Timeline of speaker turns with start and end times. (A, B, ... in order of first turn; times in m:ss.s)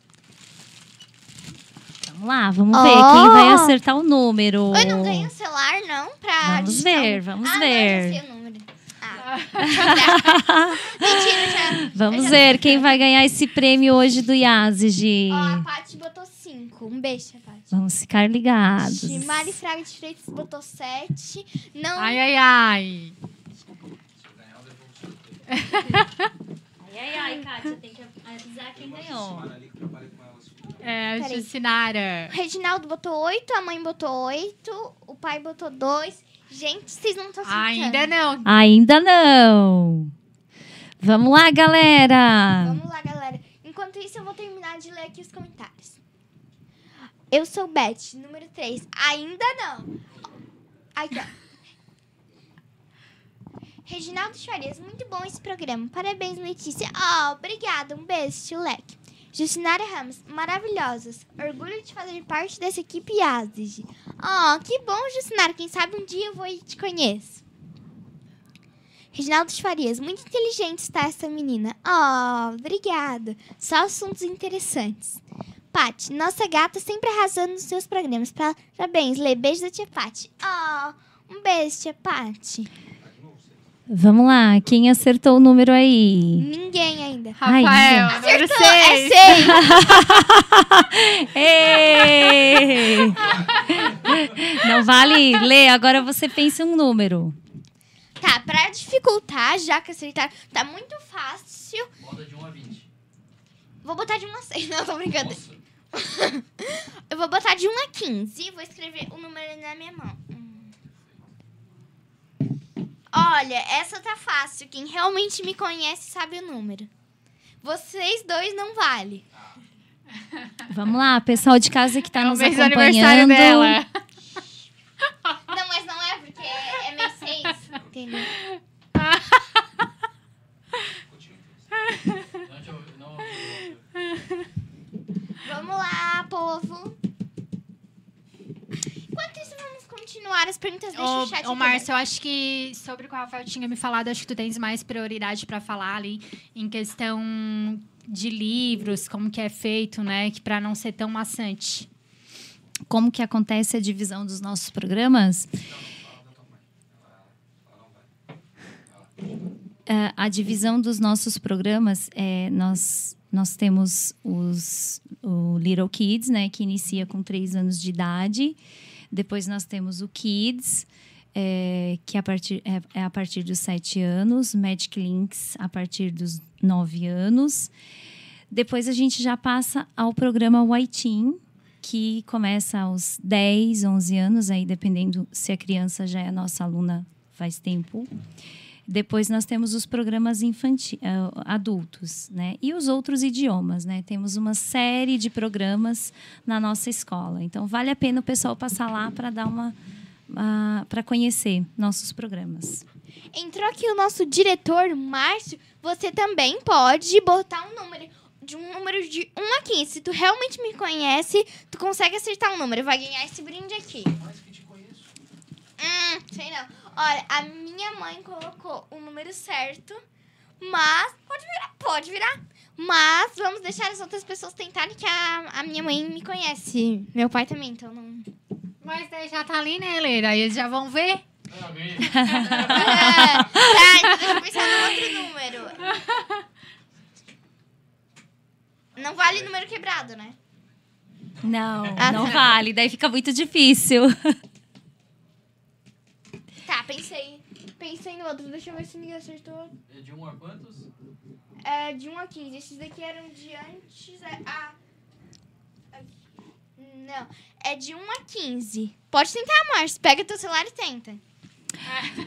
0:02.0-0:05.3 A
0:02.7-0:03.7 B
0:04.7-0:12.8 B
0:06.4-0:08.2 A
0:09.3-0:09.7 C
0:09.6-0:11.1 A
0:11.8-0:15.6 A
0:15.3-0:17.7 B
0:17.7-0:19.6 A
0:18.8-0:22.2 B
0:22.0-0:23.1 C
0:25.5-0:26.3 C
0:26.8-0:29.6 A
0:30.8-0:32.3 C
0:31.2-0:31.5 B
0:32.3-0:38.1 B
0:37.4-0:38.5 C
0:38.4-0:40.1 A
0:41.0-0:42.8 A
0:42.6-0:46.0 B
0:47.3-0:49.9 B
0:50.9-0:51.3 B
0:53.8-1:07.4 B
1:09.1-1:15.2 B
1:15.7-1:22.7 B
1:23.9-1:26.4 A
1:26.4-1:27.4 B
1:27.4-1:29.8 C
1:27.4-1:28.1 A
1:28.1-1:29.9 B
1:29.4-1:37.4 A
1:33.3-1:34.3 D
1:38.2-1:41.9 B
1:42.0-1:42.9 D
1:43.8-1:45.4 B
1:45.1-1:45.6 D
1:45.9-1:50.7 B
1:53.1-1:56.9 B
1:57.6-1:59.2 B
2:00.7-2:03.8 A
2:02.1-2:03.9 C
2:05.5-2:08.3 B
2:08.3-2:09.4 C
2:12.4-2:13.8 D
2:15.4-2:17.0 B
2:19.1-2:21.9 B
2:20.9-2:31.9 C
2:32.9-2:35.5 A
2:39.9-2:48.6 A
2:49.1-2:57.7 A
2:58.5-3:08.1 A
3:08.9-3:19.8 A
3:20.3-3:22.8 A
3:23.3-3:34.2 B
3:35.8-3:40.0 B
3:40.6-3:48.3 B
3:48.8-3:51.2 C
3:51.5-3:54.4 D
3:52.1-3:53.7 A
3:52.7-3:55.8 B
3:59.0-4:00.4 B
4:01.4-4:04.4 A
4:02.0-4:02.3 D
4:02.0-4:02.4 B
4:06.6-4:09.7 B
4:09.9-4:10.9 D
4:11.6-4:14.7 B
4:16.8-4:21.2 B